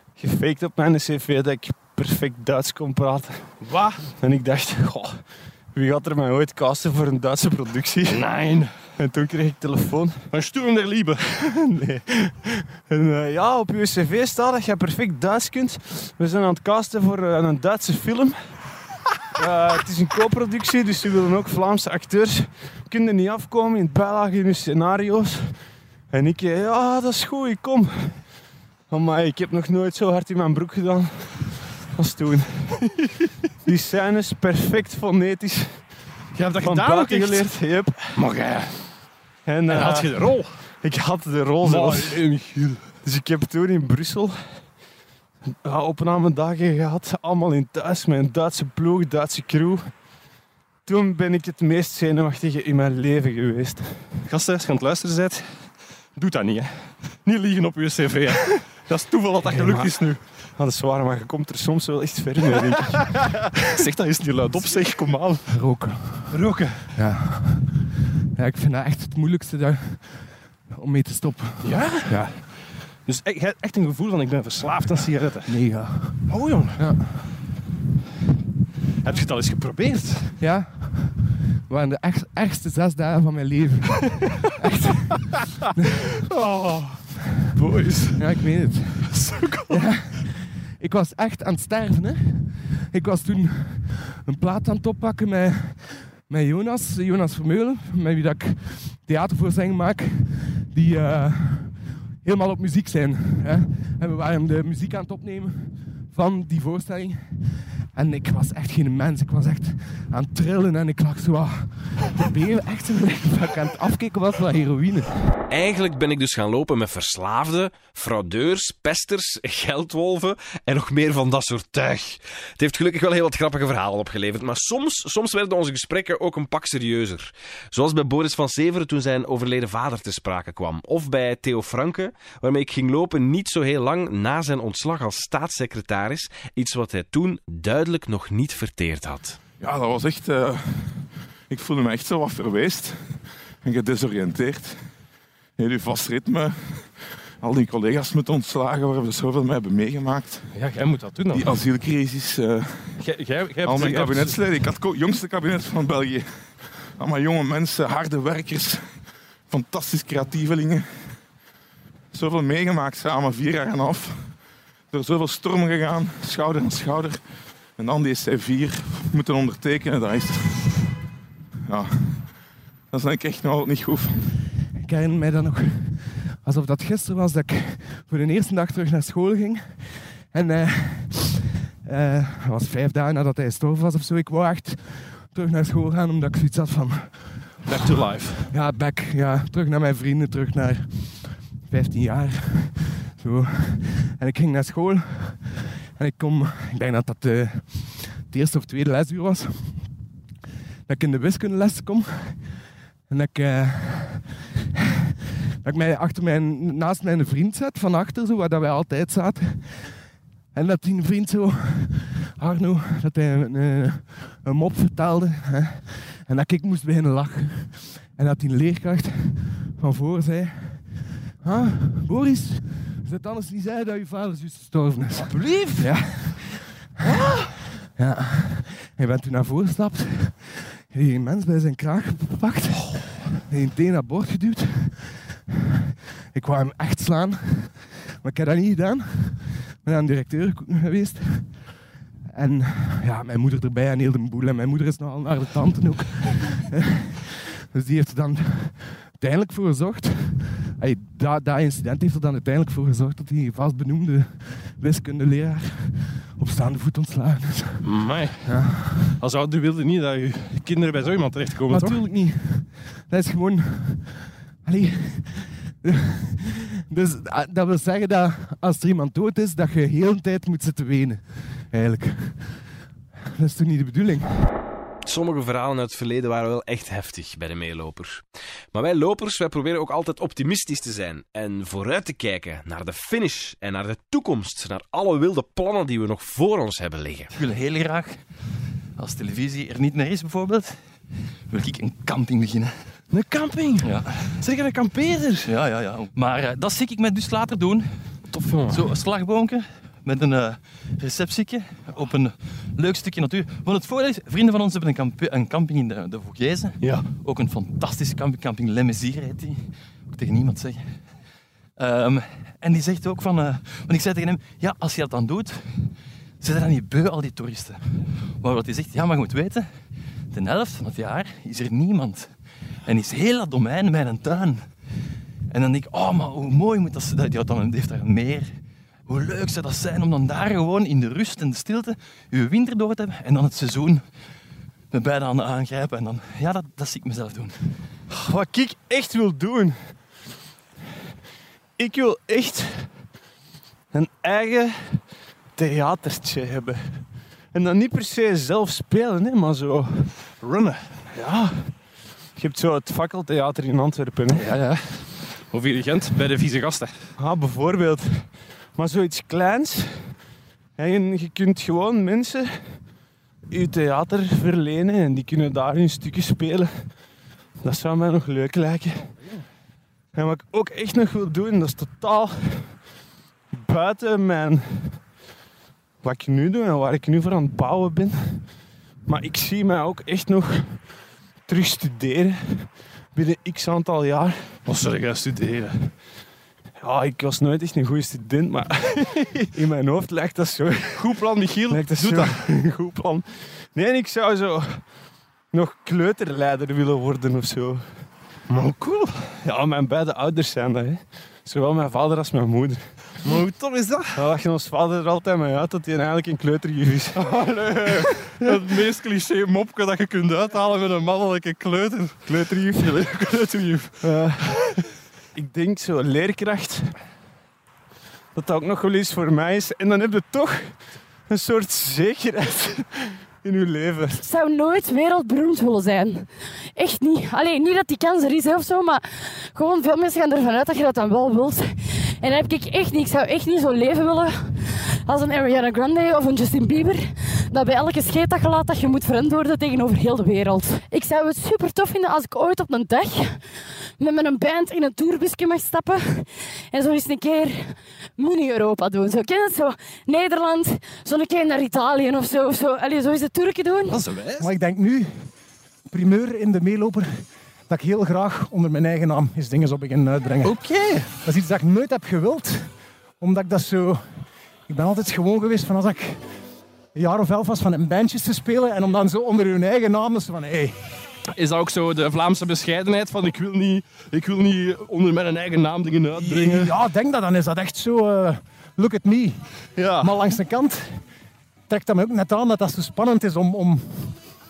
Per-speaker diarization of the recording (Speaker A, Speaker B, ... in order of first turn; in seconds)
Speaker A: 0.1-10.3, 11.4-18.7, 19.4-28.3, 28.9-32.9, 33.6-38.5, 39.5-44.8, 45.6-50.1, 50.8-54.2, 59.4-63.4, 86.4-87.0, 87.5-88.2, 89.1-89.6, 293.1-293.8, 338.1-340.1, 341.8-343.1, 343.9-350.4, 351.1-354.5, 357.2-360.2, 360.8-362.9, 363.5-367.0, 367.6-369.3, 370.1-372.9, 373.5-375.1, 376.0-384.6, 386.8-394.9, 395.5-410.2, 412.2-413.4, 414.0-414.8, 415.3-417.0, 418.3-424.2
Speaker B: 3.6-4.1, 8.1-8.9, 10.3-11.6, 36.3-37.6, 38.1-38.9, 39.7-40.7, 41.6-43.0, 54.2-60.4, 63.0-65.5, 66.3-66.8, 71.6-76.9, 79.0-80.3, 150.5-151.5, 153.0-154.5, 187.6-188.5, 225.3-225.9, 257.8-262.0, 294.1-295.4, 298.2-298.9, 306.8-307.1, 350.4-351.1, 354.3-357.1, 384.6-385.9, 390.9-392.4, 403.2-404.2, 407.2-414.0, 453.9-454.5, 460.4-461.2, 471.3-476.7, 479.7-480.2
Speaker C: 65.5-66.4, 66.9-72.5, 75.5-77.2, 80.4-85.9, 88.2-115.3, 174.8-187.8, 188.5-200.0, 200.8-204.3, 205.6-235.3, 236.3-241.8, 242.3-246.8, 247.7-259.2, 261.7-272.8, 273.4-274.4
Speaker D: 115.5-139.4, 275.0-287.3
Speaker E: 139.6-144.9, 145.6-150.5, 151.3-161.3, 162.1-170.8, 171.7-174.3
Speaker F: 287.3-293.0, 293.8-294.2, 295.4-324.8, 325.5-334.2, 334.9-337.7
Speaker G: 424.2-454.0
Speaker H: 454.4-455.3, 455.9-466.2, 466.9-470.8, 476.1-481.1, 481.7-484.2